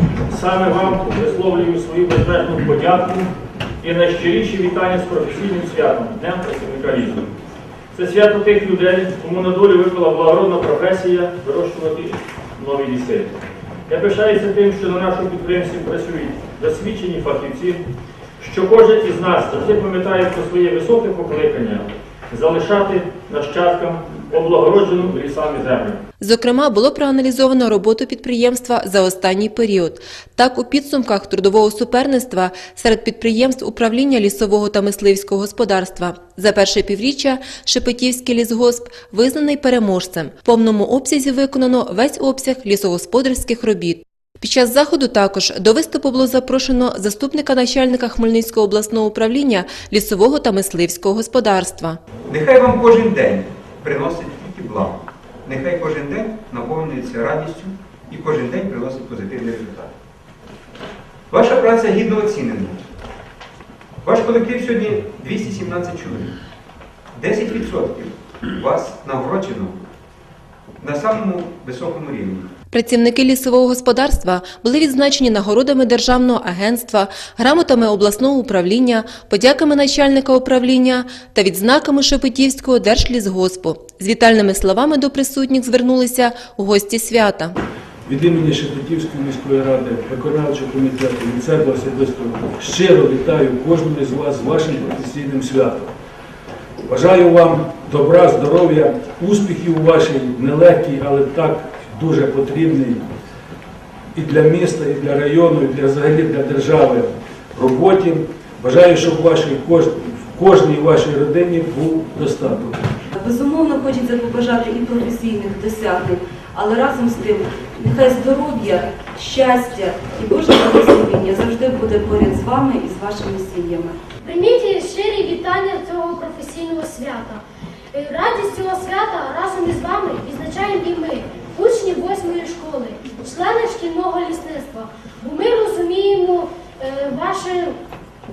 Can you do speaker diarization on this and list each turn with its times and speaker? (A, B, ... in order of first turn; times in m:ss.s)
0:00.3-0:03.3 A
0:03.8-0:07.3 A
0:07.9-0:13.3 A
0:13.9-0:17.8 A
0:18.4-0:26.0 A
0:26.2-0:52.0 B
0:52.3-0:59.9 C
1:01.3-1:02.8 C
1:04.0-1:06.3 C
1:07.1-1:09.7 C
1:10.8-1:12.4 C
1:12.7-1:27.5 B
1:28.0-1:35.9 D
1:36.9-1:43.0 D
1:44.1-1:52.8 D
1:53.2-2:04.0 E
2:04.2-2:07.4 F
2:07.9-2:17.7 F